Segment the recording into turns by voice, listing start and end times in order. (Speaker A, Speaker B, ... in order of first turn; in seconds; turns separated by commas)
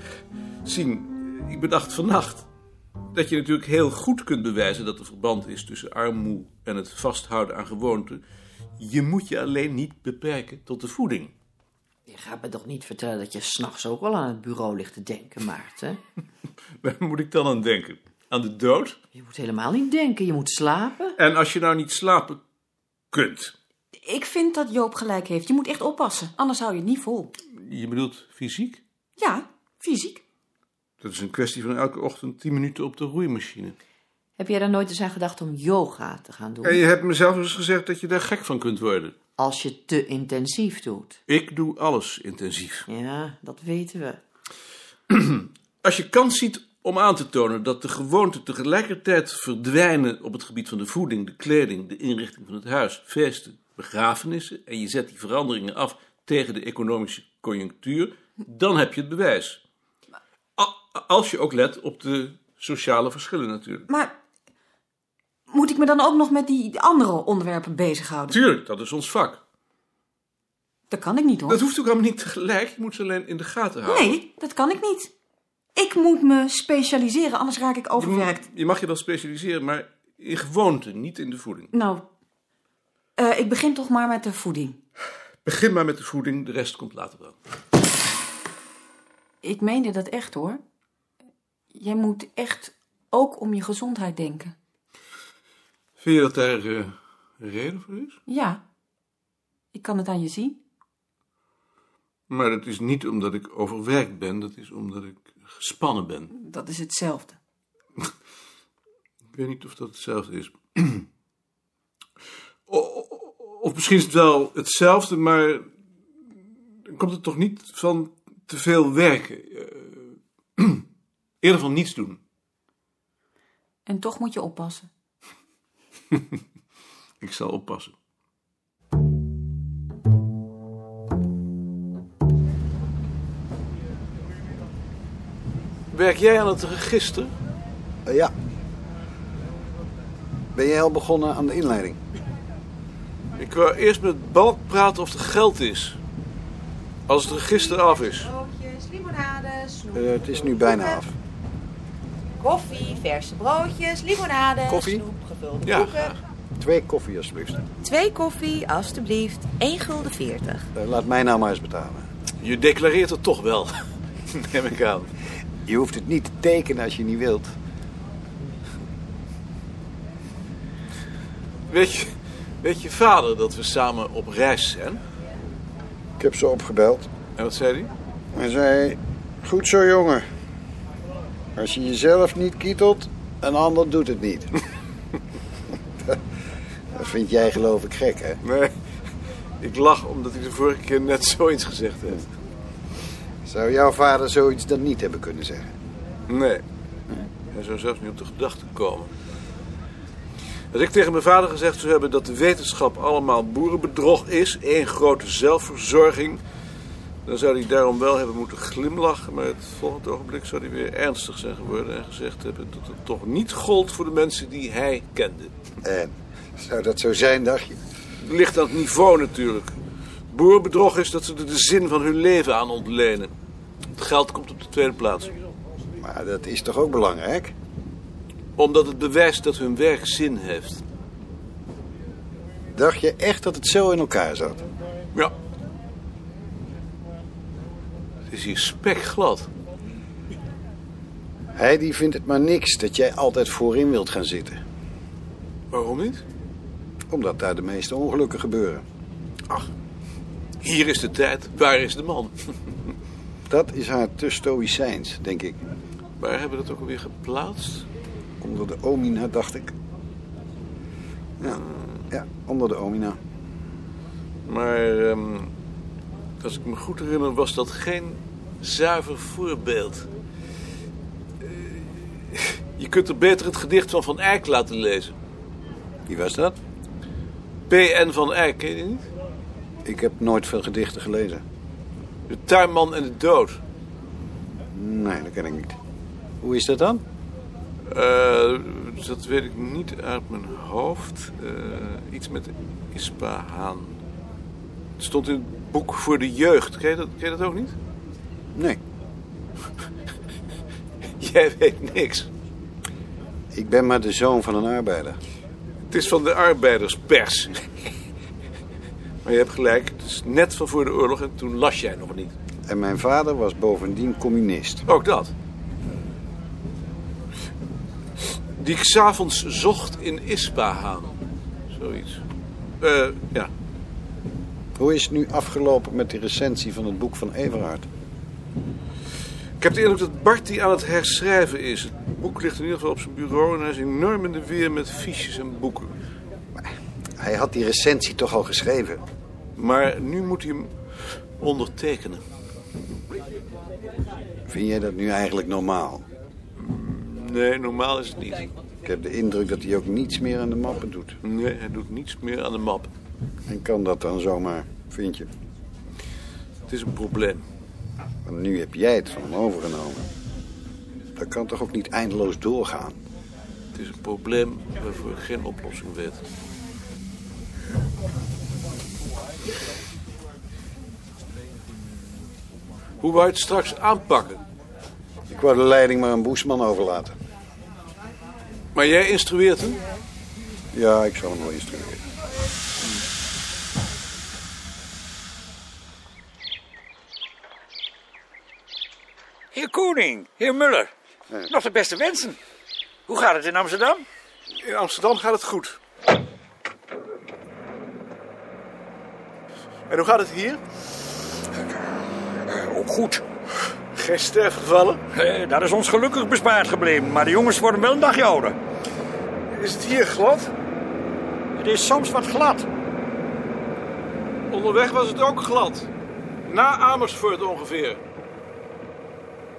Speaker A: 0.6-2.5, Speaker A: 3.1-8.2, Speaker A: 8.8-11.3, Speaker B: 12.1-16.0, Speaker A: 16.8-19.0, Speaker B: 19.1-21.1, Speaker A: 21.2-22.4, Speaker A: 23.1-23.5, Speaker C: 24.0-27.3, Speaker A: 27.5-28.8, Speaker C: 29.2-30.2, Speaker A: 31.0-33.8, Speaker B: 34.4-36.8, Speaker A: 36.6-39.1, Speaker B: 39.4-41.1, Speaker A: 41.3-42.9, Speaker B: 42.9-44.2, Speaker A: 45.1-59.6, Speaker A: 60.6-63.9, Speaker C: 63.9-64.1, Speaker C: 65.5-68.4, Speaker A: 68.3-69.4, Speaker C: 70.9-71.6, Speaker A: 71.5-74.2, Speaker C: 73.8-75.1, Speaker C: 75.7-78.4, Speaker A: 78.0-81.7, Speaker C: 81.7-82.0, Speaker C: 83.2-84.8, Speaker A: 85.4-87.3, Speaker C: 89.4-90.6, Speaker C: 91.7-94.5, Speaker A: 96.0-98.2, Speaker C: 98.3-98.6, Speaker C: 99.7-100.6, Speaker A: 102.3-106.3, Speaker C: 106.3-107.3, Speaker A: 109.3-111.1, Speaker A: 112.7-115.6, Speaker A: 116.9-120.8, Speaker A: 121.4-122.2, Speaker C: 123.8-124.9, Speaker A: 126.1-126.4, Speaker A: 127.2-127.9, Speaker A: 135.9-137.3, Speaker D: 138.1-138.3, Speaker D: 140.5-142.0, Speaker A: 143.3-146.0, Speaker A: 147.1-148.3, Speaker E: 148.4-149.9, Speaker D: 149.9-151.1, Speaker E: 152.4-155.9, Speaker A: 154.7-155.0, Speaker A: 155.6-156.2, Speaker D: 156.6-157.6, Speaker E: 157.8-160.6, Speaker D: 160.7-162.0, Speaker A: 162.4-163.7, Speaker A: 164.3-165.1, Speaker D: 165.7-167.6, Speaker A: 171.7-175.0, Speaker D: 176.2-177.1, Speaker A: 177.3-177.9, Speaker D: 178.3-180.2, Speaker D: 181.6-184.5, Speaker D: 186.9-188.4, Speaker A: 188.4-188.7, Speaker A: 189.6-192.3, Speaker D: 193.4-195.7, Speaker A: 196.3-196.6, Speaker A: 197.5-199.1, Speaker A: 200.7-206.4, Speaker A: 207.2-215.5, Speaker D: 215.8-217.8, Speaker A: 218.2-219.7, Speaker A: 220.3-223.3, Speaker A: 223.9-225.3, Speaker D: 226.0-227.5, Speaker A: 228.6-230.8, Speaker D: 232.7-234.6, Speaker A: 238.3-239.5, Speaker D: 241.5-244.6, Speaker A: 245.7-246.2, Speaker D: 247.1-248.8, Speaker A: 250.6-252.3, Speaker D: 253.5-255.6, Speaker A: 256.2-257.9, Speaker D: 258.4-259.7, Speaker A: 261.4-262.0, Speaker D: 262.1-263.2, Speaker A: 264.5-265.5, Speaker A: 266.4-270.1, Speaker A: 271.4-275.1, Speaker D: 276.1-276.6, Speaker A: 277.7-279.1, Speaker D: 279.8-281.4, Speaker A: 282.3-283.6, Speaker D: 284.7-285.8, Speaker D: 286.4-287.0, Speaker A: 287.9-294.0, Speaker A: 295.0-297.7, Speaker D: 298.5-298.8, Speaker A: 301.2-302.3, Speaker D: 303.5-305.2, Speaker A: 305.9-307.7, Speaker A: 309.2-312.3, Speaker D: 312.7-314.8, Speaker A: 314.9-315.3, Speaker A: 318.6-321.1, Speaker A: 321.7-322.2, Speaker A: 322.8-323.5, Speaker D: 324.8-327.9, Speaker A: 329.6-335.9, Speaker D: 337.2-339.0, Speaker A: 339.6-340.7, Speaker A: 341.4-342.2, Speaker D: 344.5-346.0, Speaker A: 346.6-348.5, Speaker D: 348.8-351.2, Speaker A: 351.2-352.9, Speaker D: 353.5-355.3, Speaker A: 356.7-357.4, Speaker D: 358.2-360.1, Speaker D: 361.1-363.0, Speaker A: 363.7-366.2, Speaker A: 373.0-374.4, Speaker D: 375.3-377.1, Speaker A: 378.7-379.8, Speaker D: 380.7-382.0, Speaker F: 389.5-390.9, Speaker F: 391.5-392.4, Speaker F: 393.1-394.0, Speaker A: 394.6-395.8, Speaker A: 399.9-400.6, Speaker F: 402.4-403.2, Speaker A: 403.9-405.0, Speaker F: 405.1-408.6, Speaker A: 409.5-410.5, Speaker F: 411.6-412.7, Speaker A: 414.5-415.9, Speaker A: 416.4-418.0